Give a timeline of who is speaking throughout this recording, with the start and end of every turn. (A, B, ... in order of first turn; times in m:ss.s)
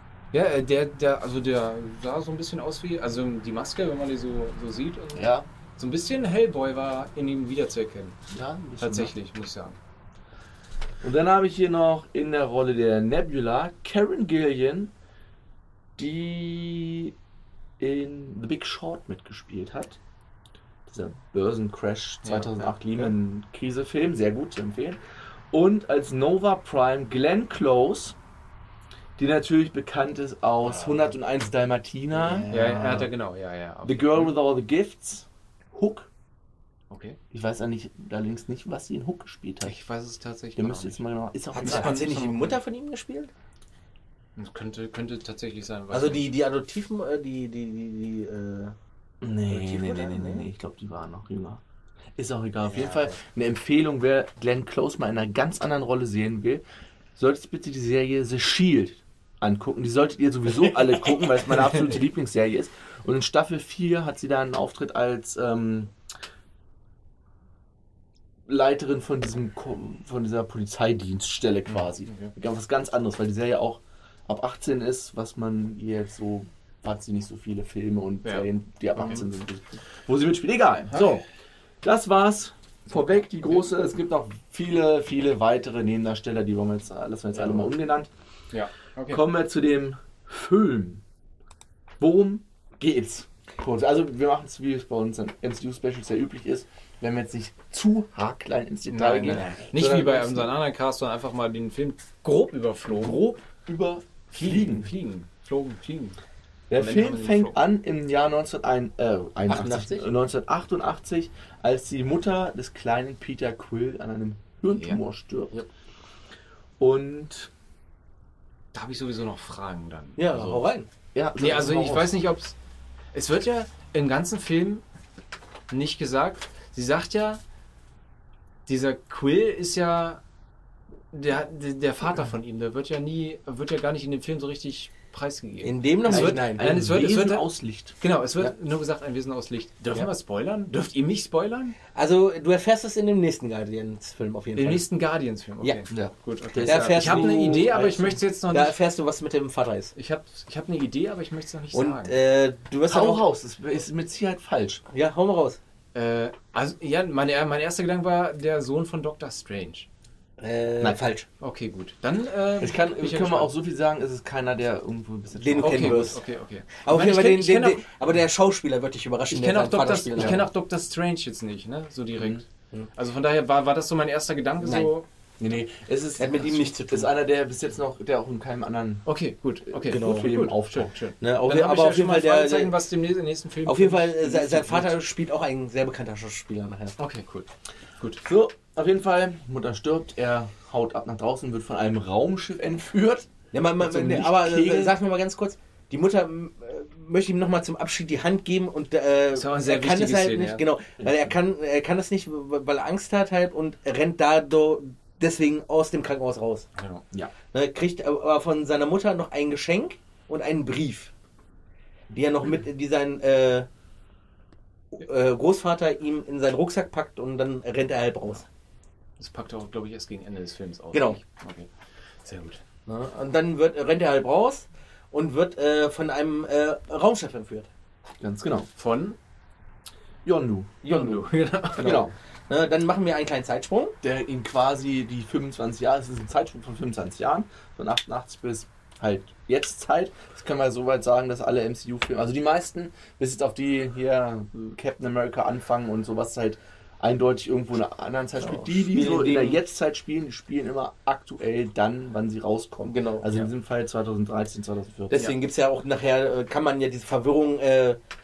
0:00.3-0:08.2 A
0:05.1-0:05.4 B
0:08.3-0:09.1 B
0:08.8-0:09.8 A
0:11.0-0:14.9 B
0:16.0-0:17.1 B
0:17.8-0:20.0 B
0:20.8-0:28.2 B
0:22.2-0:22.7 A
0:29.2-0:33.1 B
0:32.2-0:33.0 C
0:32.5-0:34.3 A
0:33.8-0:36.1 B
0:36.9-0:37.2 A
0:37.3-0:39.8 B
0:39.6-0:41.0 A
0:40.6-0:42.2 B
0:41.5-0:43.3 C
0:41.6-0:42.5 A
0:44.4-0:46.3 A
0:45.9-0:48.7 C
0:49.2-0:51.6 B
0:49.5-0:50.5 C
0:52.2-0:56.6 B
0:52.7-0:53.2 C
0:57.2-1:05.9 B
1:08.5-1:21.2 B
1:11.7-1:12.3 A
1:18.2-1:19.2 A
1:21.8-1:28.1 B
1:22.9-1:23.4 A
1:28.5-1:29.2 A
1:29.1-1:31.0 B
1:32.0-1:40.5 B
1:38.9-1:43.4 A
1:42.9-1:44.9 B
1:44.3-1:46.2 A
1:46.7-1:55.6 B
1:46.8-1:47.6 A
1:49.4-1:50.1 C
1:54.7-1:55.0 A
1:56.8-1:57.5 B
1:58.7-2:00.7 A
2:00.2-2:00.9 C
2:01.1-2:02.1 B
2:01.4-2:02.5 A
2:03.1-2:04.8 A
2:05.7-2:07.4 A
2:08.7-2:10.2 A
2:11.1-2:17.5 A
2:15.6-2:16.7 C
2:16.0-2:18.5 B
2:18.0-2:21.8 A
2:21.9-2:24.8 C
2:24.6-2:28.8 A
2:25.9-2:28.1 B
2:26.6-2:29.9 C
2:30.0-2:32.2 A
2:31.7-2:33.2 C
2:32.9-2:34.8 B
2:34.9-2:35.6 C
2:35.9-2:39.9 A
2:40.4-2:41.3 C
2:41.4-2:43.5 A
2:42.6-2:46.2 B
2:45.4-2:46.2 C
2:45.6-2:47.8 A
2:46.8-2:50.5 C
2:49.3-2:55.0 A
2:54.6-2:54.9 C
2:55.4-2:59.0 B
2:56.2-2:57.1 C
2:59.0-3:05.0 A
2:59.8-3:00.9 B
2:59.8-3:00.3 C
3:01.2-3:02.7 C
3:03.6-3:07.0 C
3:07.0-3:07.5 A
3:08.2-3:15.0 B
3:13.5-3:26.7 C
3:19.4-3:20.6 A
3:26.8-3:27.0 A
3:27.5-3:31.1 C
3:32.1-3:33.7 C
3:34.9-3:38.4 C
3:39.2-3:41.7 A
3:40.9-3:41.2 C
3:42.2-3:42.6 A
3:42.9-3:47.7 C
3:48.2-3:48.7 B
3:48.8-3:49.2 A
3:50.2-3:50.8 B
3:50.8-3:53.9 C
3:50.9-3:52.0 A
3:51.8-3:52.1 B
3:54.0-4:15.2 B
4:08.4-4:09.6 C
4:12.8-4:13.3 C
4:15.1-4:18.0 C